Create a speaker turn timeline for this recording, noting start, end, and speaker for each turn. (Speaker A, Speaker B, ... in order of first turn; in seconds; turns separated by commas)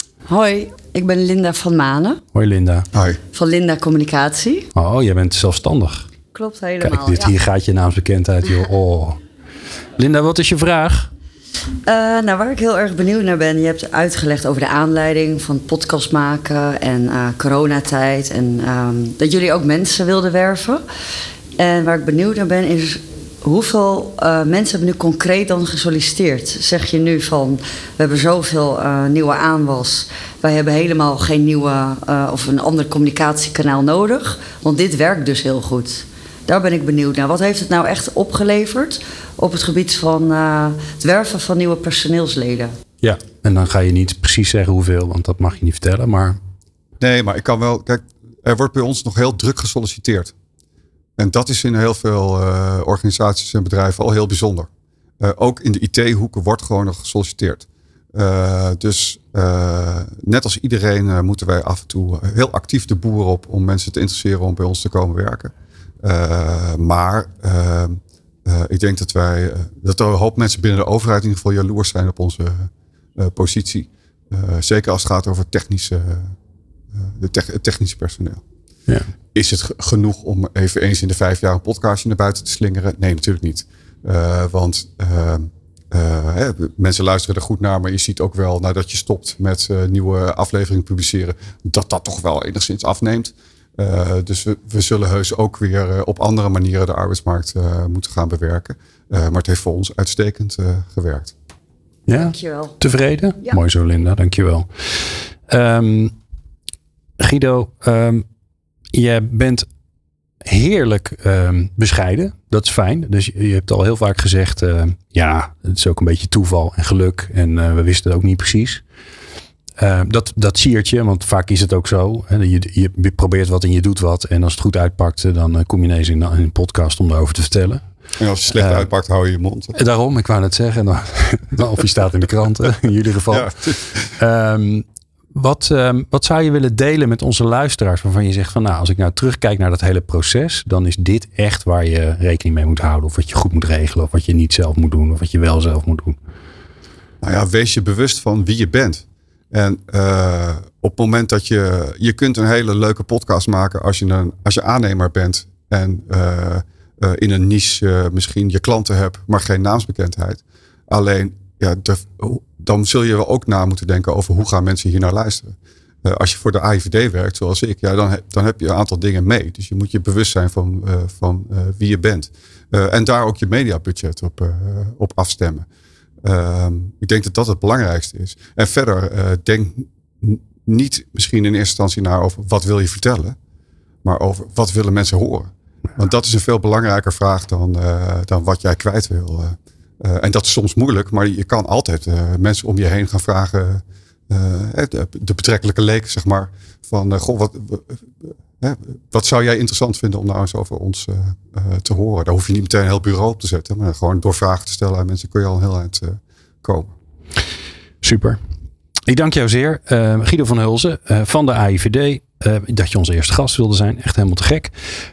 Speaker A: 0.3-2.2, Speaker B: 2.3-2.9, Speaker C: 2.9-3.2, Speaker A: 3.3-4.7, Speaker B: 4.7-6.1, Speaker A: 6.3-7.3, Speaker B: 6.8-9.2, Speaker B: 10.0-11.1, Speaker A: 11.9-20.8, Speaker A: 21.6-42.7, Speaker B: 43.0-46.4, Speaker C: 47.0-50.3, Speaker C: 51.2-54.7, Speaker C: 55.2-65.5, Speaker C: 66.0-76.3, Speaker C: 76.9-78.4, Speaker C: 79.3-101.3, Speaker B: 102.1-106.1, Speaker A: 102.1-102.7, Speaker B: 107.2-108.2, Speaker B: 108.9-109.7, Speaker B: 110.4-118.8, Speaker B: 119.8-127.8, Speaker C: 128.2-129.8, Speaker B: 128.5-128.9, Speaker B: 129.7-133.5, Speaker C: 133.3-134.2, Speaker B: 134.1-146.2, Speaker C: 147.2-175.7, Speaker C: 176.2-183.4, Speaker C: 184.0-198.0, Speaker C: 198.6-206.9, Speaker B: 208.0-208.4, Speaker B: 209.1-214.7